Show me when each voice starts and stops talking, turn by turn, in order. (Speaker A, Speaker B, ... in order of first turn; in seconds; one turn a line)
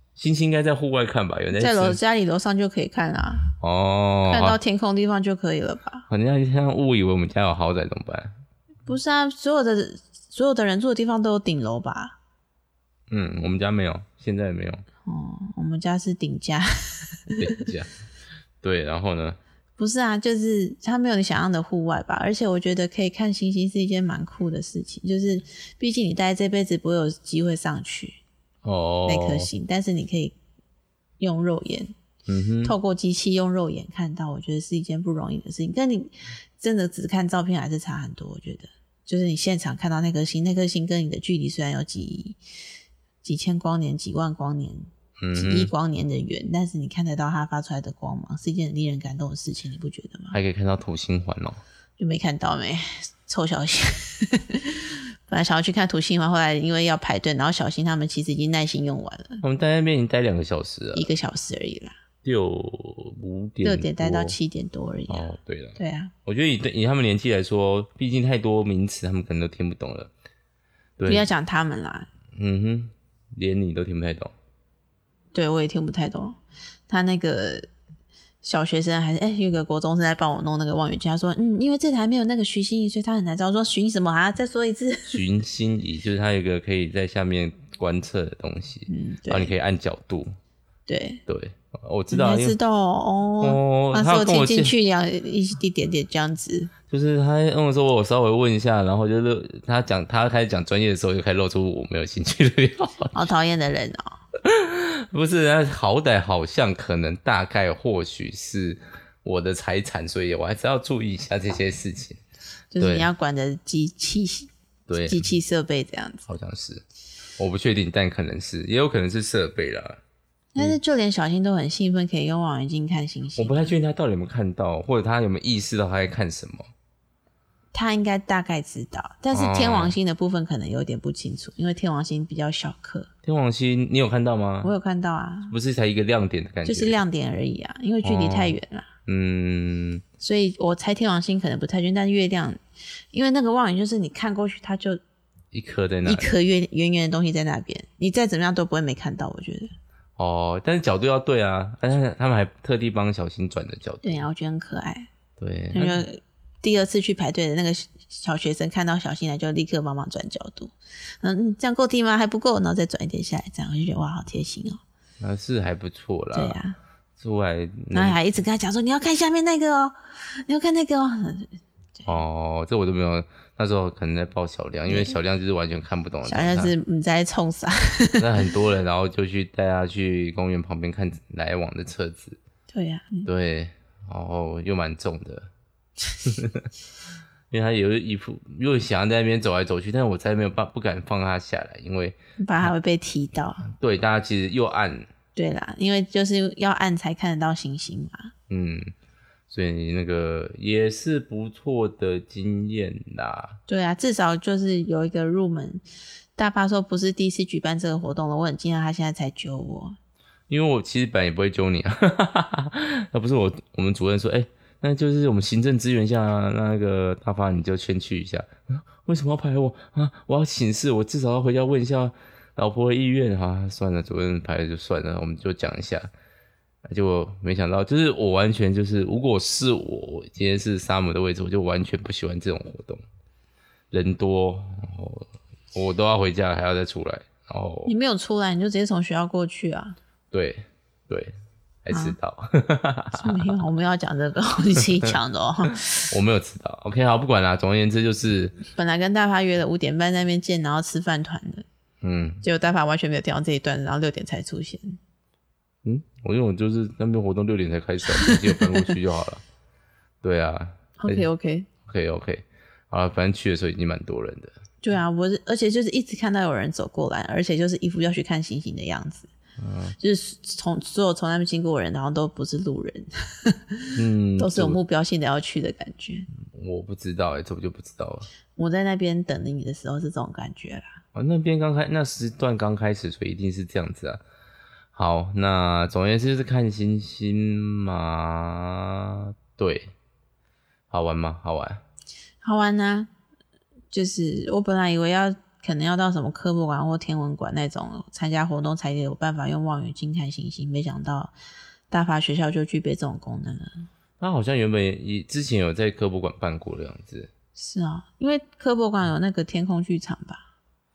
Speaker A: 0.2-2.0
Speaker B: 1.5-3.5
Speaker A: 3.6-4.6
Speaker B: 4.3-6.1
Speaker A: 6.1-8.4
Speaker B: 8.9-12.2
Speaker A: 13.1-14.8
Speaker B: 15.1-17.6
Speaker A: 17.4-17.9
Speaker A: 18.6-19.4
Speaker B: 19.8-28.2
Speaker A: 28.6-29.5
Speaker B: 29.1-30.4
Speaker B: 31.2-31.9
Speaker A: 32.3-32.8
Speaker B: 32.6-42.4
Speaker B: 43.2-50.4
Speaker A: 45.2-45.7
Speaker A: 50.3-51.6
Speaker B: 52.0-59.4
Speaker A: 59.4-61.1
Speaker B: 60.9-62.0
Speaker A: 62.2-64.4
Speaker B: 63.6-66.1
Speaker A: 65.1-70.1
Speaker A: 71.0-71.3
Speaker B: 71.1-72.1
Speaker A: 72.3-74.3
Speaker B: 75.3-77.7
Speaker B: 78.4-85.2
Speaker A: 85.1-90.3
Speaker B: 88.9-89.5
Speaker B: 90.9-91.2
Speaker A: 91.3-92.6
Speaker B: 92.1-96.7
Speaker A: 93.4-94.7
Speaker A: 96.9-103.3
Speaker B: 103.1-104.2
Speaker A: 104.4-112.2
Speaker B: 112.7-114.5
Speaker A: 112.8-113.1
Speaker A: 114.9-115.2
Speaker B: 115.0-116.2
Speaker A: 116.3-116.8
Speaker A: 117.4-120.0
Speaker B: 120.5-123.8
Speaker A: 123.4-126.7
Speaker B: 127.7-133.1
Speaker A: 129.3-130.0
Speaker A: 133.2-134.7
Speaker B: 134.6-135.5
Speaker A: 135.5-137.0
Speaker B: 136.7-138.9
Speaker A: 138.0-140.0
Speaker B: 140.2-142.6
Speaker B: 143.1-145.0
Speaker A: 145.5-146.3
Speaker B: 146.1-149.7
Speaker A: 150.2-154.2
Speaker B: 154.0-155.1
Speaker A: 155.4-156.1
Speaker B: 155.7-164.8
Speaker A: 165.2-166.6
Speaker B: 166.3-166.8
Speaker A: 167.2-168.2
Speaker B: 167.9-172.2
Speaker A: 172.1-176.7
Speaker B: 174.9-175.2
Speaker B: 176.2-178.2
Speaker A: 178.2-182.4
Speaker B: 182.7-183.3
Speaker A: 183.2-185.5
Speaker A: 186.2-186.7
Speaker A: 187.5-192.7
Speaker B: 192.4-193.6
Speaker A: 193.6-195.1
Speaker B: 195.4-198.3
Speaker A: 198.5-198.9
Speaker A: 199.5-203.6
Speaker B: 203.7-205.8
Speaker B: 206.4-210.0
Speaker A: 210.5-226.1
Speaker A: 226.9-233.0
Speaker A: 233.9-237.9
Speaker B: 237.9-240.0
Speaker A: 240.3-243.6
Speaker B: 241.9-242.2
Speaker B: 243.1-246.1
Speaker A: 246.1-248.6
Speaker B: 248.8-251.7
Speaker A: 252.0-252.4
Speaker B: 252.4-255.0
Speaker A: 255.8-259.4
Speaker B: 258.1-258.9
Speaker A: 260.2-261.3
Speaker B: 261.0-261.7
Speaker A: 261.8-264.5
Speaker B: 264.8-269.3
Speaker A: 269.6-270.0
Speaker B: 270.0-276.3
Speaker A: 273.9-274.8
Speaker A: 276.4-278.3
Speaker B: 278.5-281.0
Speaker A: 281.1-284.2
Speaker A: 284.9-289.9
Speaker A: 290.9-291.8
Speaker B: 292.4-293.1
Speaker B: 293.9-301.3
Speaker B: 301.9-303.9
Speaker A: 304.2-307.3
Speaker B: 307.6-310.4